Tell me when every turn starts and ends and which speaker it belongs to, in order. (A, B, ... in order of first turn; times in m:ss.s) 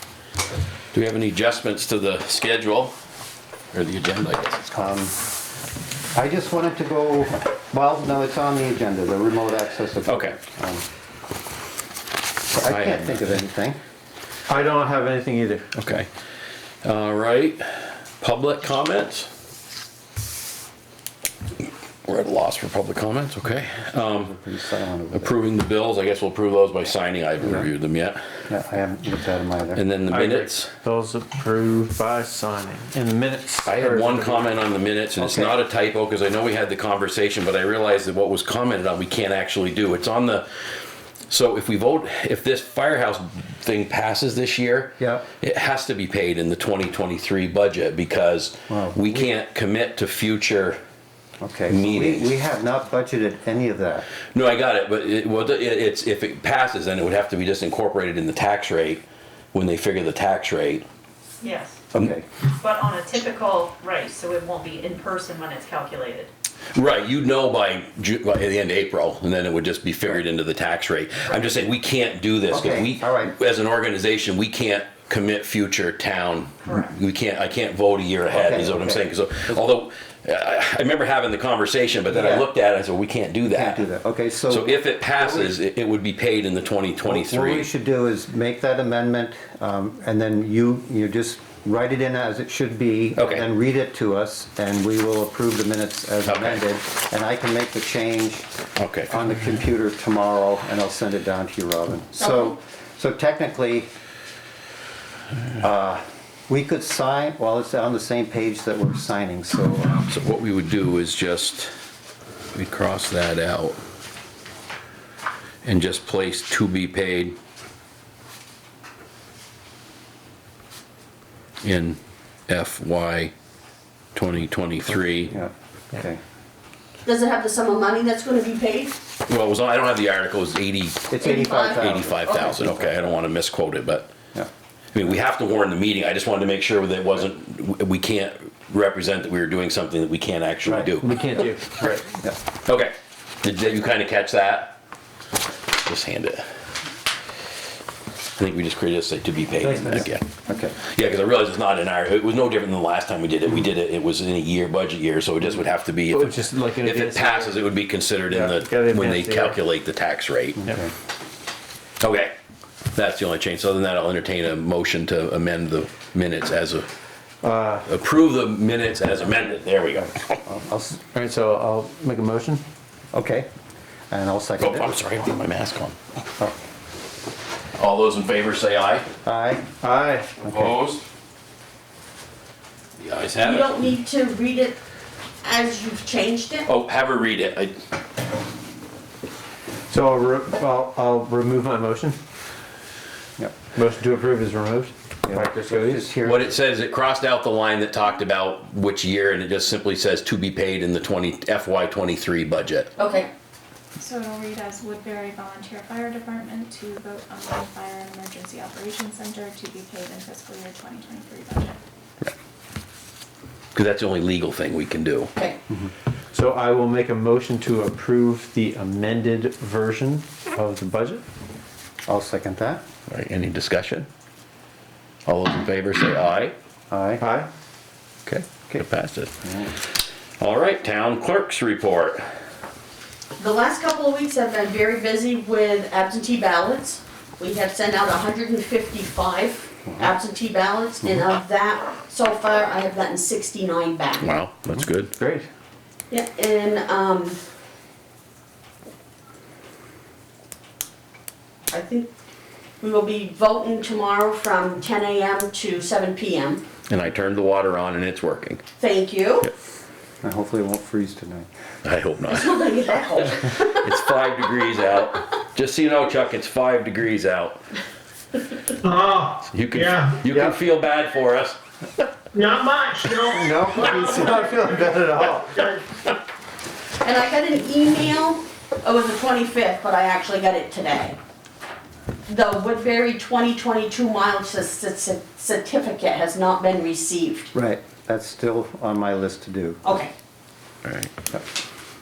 0:00.9-0:02.9 A
0:03.7-0:04.7 A
0:04.7-0:05.2 B
0:06.1-0:10.8 B
0:10.0-0:10.4 A
0:12.5-0:13.8 B
0:12.6-0:13.4 A
0:14.5-0:15.7 C
0:15.8-0:16.1 A
0:16.8-0:17.6 A
0:18.2-0:19.3 A
0:22.1-0:24.4 A
0:24.1-0:25.3 B
0:25.1-0:28.2 A
0:27.4-0:27.7 B
0:28.5-0:29.8 B
0:29.7-0:30.7 A
0:30.1-0:34.6 C
0:33.6-0:40.4 A
0:35.2-0:35.6 B
0:41.3-0:50.8 A
0:45.0-0:45.2 B
0:48.7-0:49.3 B
0:51.4-0:54.1 B
0:51.7-0:52.3 A
0:54.3-1:00.8 A
1:01.4-1:01.8 D
1:01.9-1:02.2 B
1:02.5-1:06.3 D
1:06.7-1:23.9 A
1:11.3-1:11.5 D
1:12.5-1:13.3 B
1:16.6-1:16.9 D
1:18.3-1:19.1 B
1:22.1-1:22.5 B
1:23.5-1:25.6 B
1:24.5-1:27.7 A
1:27.0-1:38.5 B
1:33.2-1:33.4 A
1:36.2-1:36.6 A
1:38.8-1:39.2 A
1:39.1-1:43.9 B
1:42.2-1:42.6 E
1:45.6-1:50.0 B
1:49.9-1:51.7 A
1:52.5-1:53.8 A
1:55.6-1:57.3 A
2:01.6-2:03.3 A
2:04.1-2:05.3 A
2:05.3-2:06.2 B
2:07.0-2:09.0 E
2:09.3-2:14.1 A
2:11.1-2:13.0 B
2:11.2-2:12.6 E
2:14.9-2:21.1 A
2:20.6-2:20.9 B
2:21.0-2:22.0 C
2:22.6-2:24.7 A
2:25.7-2:26.4 A
2:28.4-2:30.2 A
2:29.6-2:30.1 C
2:29.9-2:30.8 B
2:30.8-2:40.6 A
2:36.1-2:37.6 C
2:38.3-2:39.6 C
2:40.6-2:40.9 B
2:42.0-2:42.3 A
2:42.9-2:46.9 A
2:47.4-2:47.9 C
2:47.9-2:50.4 A
2:50.4-2:51.0 B
2:51.1-2:52.6 C
2:53.1-2:53.5 B
2:54.1-2:55.0 B
2:54.6-2:56.0 A
2:57.8-2:59.1 A
2:59.2-2:59.7 B
2:59.8-3:00.4 C
3:00.4-3:00.8 B
3:00.5-3:01.0 A
3:03.0-3:03.8 A
3:03.4-3:04.8 E
3:05.4-3:06.7 E
3:06.7-3:07.8 A
3:09.9-3:12.2 C
3:13.7-3:16.1 C
3:15.2-3:16.5 B
3:16.2-3:22.9 A
3:23.0-3:23.3 E
3:24.0-3:31.8 F
3:33.7-3:35.3 A
3:36.3-3:41.2 C
3:42.1-3:42.8 B
3:43.1-3:44.1 A
3:45.2-3:46.5 A
3:46.9-3:47.2 B
3:47.2-3:47.5 C
3:48.2-3:49.3 A
3:49.4-3:49.7 B
3:50.4-3:52.2 A
3:53.4-4:04.3 E
3:59.9-4:00.1 B
4:04.2-4:05.1 A
4:05.2-4:05.5 C
4:06.1-4:07.4 E
4:11.7-4:12.1 E
4:12.8-4:16.6 E
4:16.9-4:18.6 A
4:18.8-4:19.5 E
4:20.2-4:21.5 B
4:21.8-4:27.6 A
4:22.2-4:23.9 E
4:28.8-4:30.2 G
4:29.5-4:31.6 A
4:30.2-4:30.5 C
4:32.3-4:35.2 G
4:33.3-4:35.0 B
4:34.1-4:35.7 C
4:37.0-4:41.2 E
4:42.3-4:47.5 E
4:47.5-4:49.8 B
4:49.8-4:50.1 E
4:50.8-4:51.1 A